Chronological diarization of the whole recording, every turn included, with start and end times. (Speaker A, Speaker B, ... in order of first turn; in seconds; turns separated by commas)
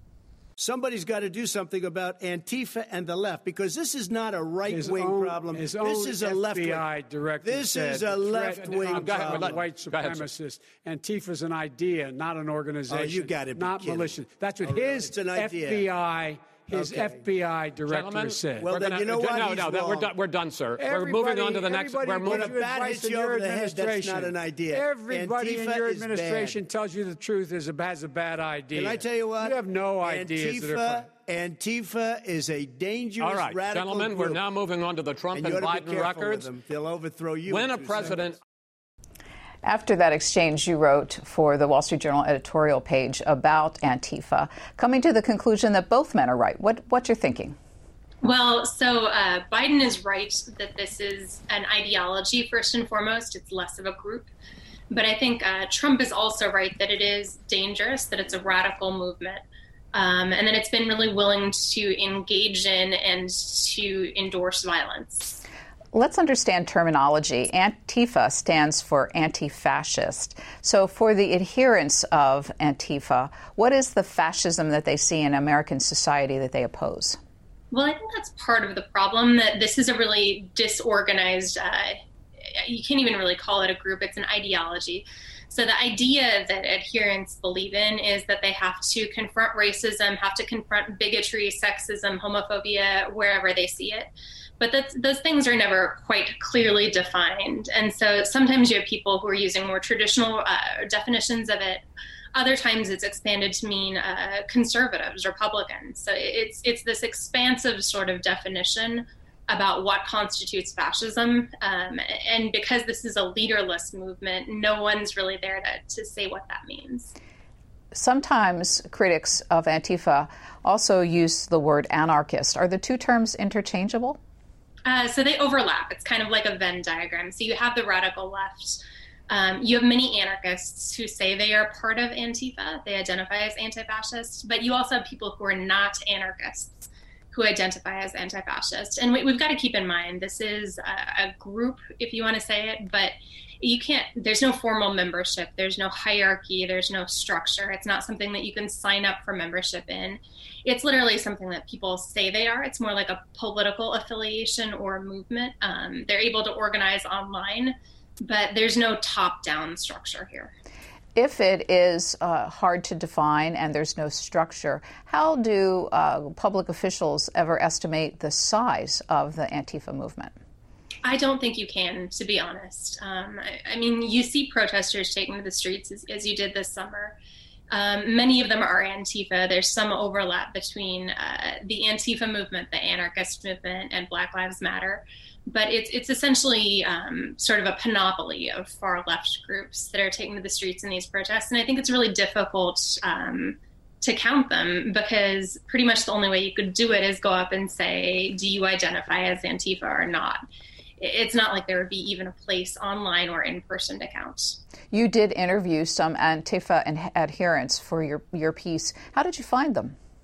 Speaker A: 0.6-6.9, Speaker B: 4.7-18.7, Speaker A: 7.4-9.6, Speaker C: 8.8-10.3, Speaker A: 12.9-15.9, Speaker A: 16.7-17.3, Speaker C: 17.9-22.6, Speaker A: 18.5-20.1, Speaker B: 20.8-31.1, Speaker A: 22.2-26.6, Speaker A: 28.7-34.4, Speaker C: 33.2-36.5, Speaker A: 35.3-38.3, Speaker C: 37.5-38.4, Speaker D: 39.6-47.5, Speaker E: 48.2-54.3, Speaker E: 54.9-65.4, Speaker D: 65.9-77.2, Speaker E: 77.7-117.1, Speaker D: 117.9-124.2, Speaker E: 124.8-160.5, Speaker D: 161.1-170.3, Speaker E: 171.0-177.2, Speaker E: 177.7-200.4, Speaker E: 201.0-204.6, Speaker D: 204.9-209.9